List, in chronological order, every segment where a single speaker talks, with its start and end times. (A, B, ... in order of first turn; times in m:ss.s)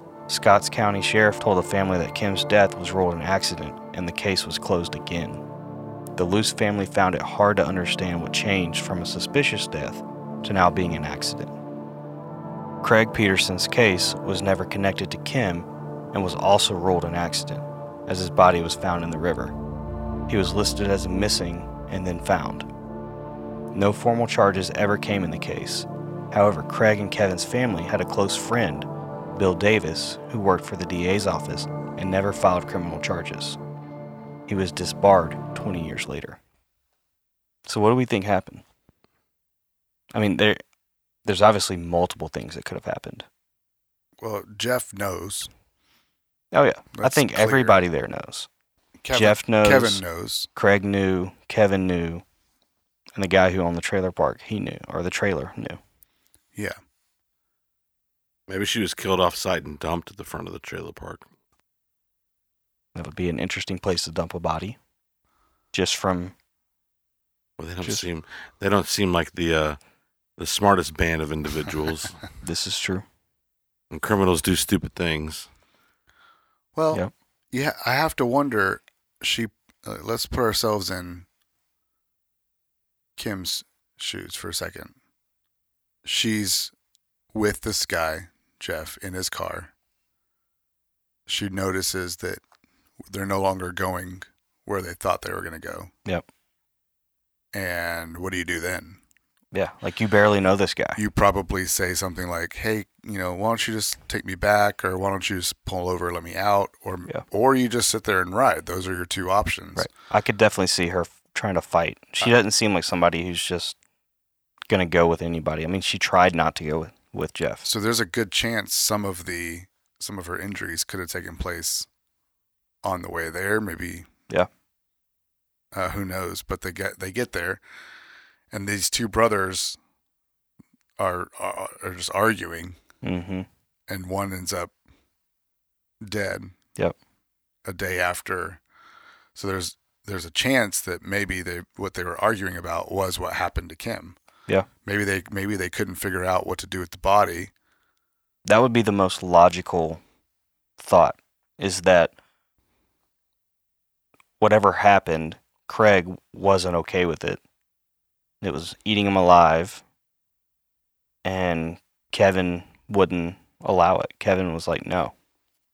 0:00.3-0:05.4 A
0:06.2-0:11.5 A
0:12.8-0:19.5 A
0:20.3-0:22.7 A
0:23.7-0:33.6 A
0:34.5-0:36.4 A
0:37.6-0:38.6 A
0:40.1-0:40.6 A
0:41.2-0:43.3 A
0:44.2-0:45.5 B
0:46.5-0:48.5 A
0:46.9-0:47.8 B
0:49.0-0:50.5 B
0:49.1-0:50.0 A
0:50.5-0:52.2 A
0:53.2-0:55.8 A
0:58.5-1:01.3 C
1:02.9-1:04.8 A
1:05.7-1:06.3 A
1:07.6-1:09.8 C
1:10.4-1:12.2 C
1:12.4-1:13.0 A
1:13.9-1:15.5 C
1:16.7-1:21.3 B
1:23.2-1:24.9 B
1:26.0-1:26.7 B
1:27.3-1:29.7 B
1:31.3-1:32.4 B
1:33.0-1:35.9 B
1:37.5-1:39.0 B
1:39.5-1:41.0 A
1:41.0-1:49.9 B
1:49.8-1:53.8 A
1:54.7-1:57.7 A
1:57.6-2:01.9 B
2:02.8-2:04.1 B
2:05.7-2:07.6 B
2:08.5-2:09.8 B
2:11.0-2:12.8 B
2:13.0-2:13.5 A
2:13.9-2:14.7 B
2:16.0-2:16.5 B
2:17.6-2:18.6 B
2:19.3-2:24.2 B
2:24.8-2:27.5 B
2:28.4-2:30.0 A
2:30.8-2:32.1 A
2:34.4-2:37.4 A
2:38.4-2:39.8 A
2:41.2-2:45.1 A